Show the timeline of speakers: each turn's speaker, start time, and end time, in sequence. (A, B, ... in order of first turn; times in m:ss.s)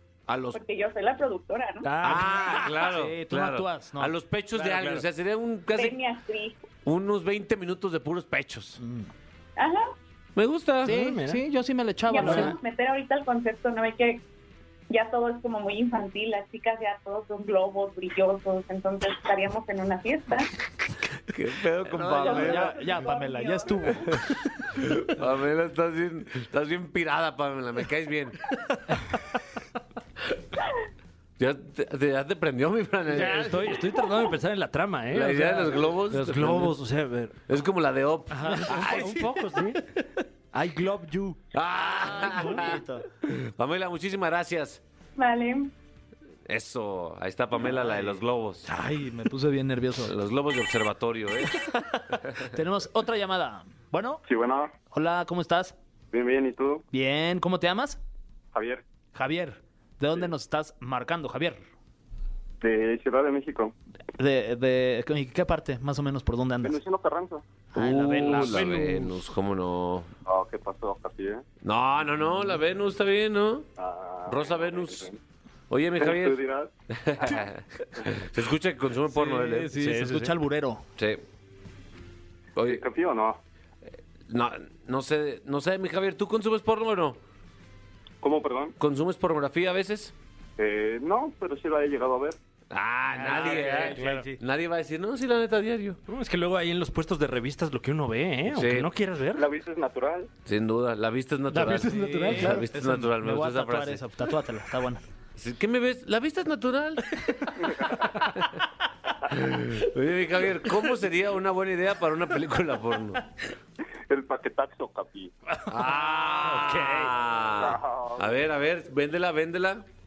0:00.3-0:00.6 A
0:00.5-0:02.0 B
0:01.8-0:02.6 C
0:02.0-0:04.1 D
0:02.0-0:06.0 A
0:04.5-0:05.0 C
0:05.8-0:06.6 B
0:06.8-0:08.8 A
0:08.8-0:09.0 D
0:09.6-0:09.9 B
0:10.4-0:11.0 A
0:10.8-0:11.4 C
0:10.8-0:12.5 D
0:12.1-0:14.2 B
0:12.2-0:12.6 C
0:14.9-0:20.5 B
0:21.3-0:22.8 A
0:21.9-0:24.2 D
0:22.1-0:24.0 B
0:24.8-0:28.5 A
0:31.4-0:33.8 A
0:33.1-0:37.3 C
0:35.1-0:36.8 A
0:37.5-0:39.2 A
0:38.4-0:39.3 D
0:38.4-0:40.0 C
0:40.5-0:41.4 C
0:41.5-0:44.8 A
0:42.0-0:43.0 D
0:45.2-0:45.7 B
0:46.5-0:48.7 A
0:47.7-0:48.1 D
0:48.6-0:50.1 D
0:50.0-0:51.7 A
0:52.4-0:54.2 D
0:54.2-0:54.7 E
0:54.9-0:55.7 D
0:56.1-0:56.8 E
0:56.9-0:58.0 D
0:58.5-0:58.8 E
0:59.1-1:01.6 D
1:02.6-1:03.7 E
1:04.2-1:06.8 D
1:06.6-1:07.4 E
1:07.7-1:09.1 D
1:07.8-1:10.1 A
1:10.2-1:11.4 E
1:11.6-1:13.7 A
1:13.8-1:15.2 E
1:14.2-1:15.1 A
1:15.7-1:20.2 A
1:16.0-1:16.7 E
1:19.1-1:20.8 D
1:19.8-1:20.3 C
1:21.0-1:21.2 A
1:22.6-1:22.8 A
1:22.6-1:23.4 E
1:24.3-1:27.2 A
1:28.2-1:28.7 E
1:28.8-1:30.1 A
1:30.6-1:32.4 E
1:32.7-1:36.0 A
1:33.1-1:34.4 D
1:33.3-1:34.3 C
1:36.1-1:39.4 C
1:38.5-1:38.9 A
1:39.3-1:40.3 E
1:40.4-1:44.0 A
1:41.5-1:42.6 C
1:41.5-1:45.0 D
1:45.3-1:48.6 A
1:49.3-1:53.2 A
1:54.1-1:55.3 E
1:55.5-1:57.1 C
1:55.7-1:59.8 A
1:57.5-1:58.4 E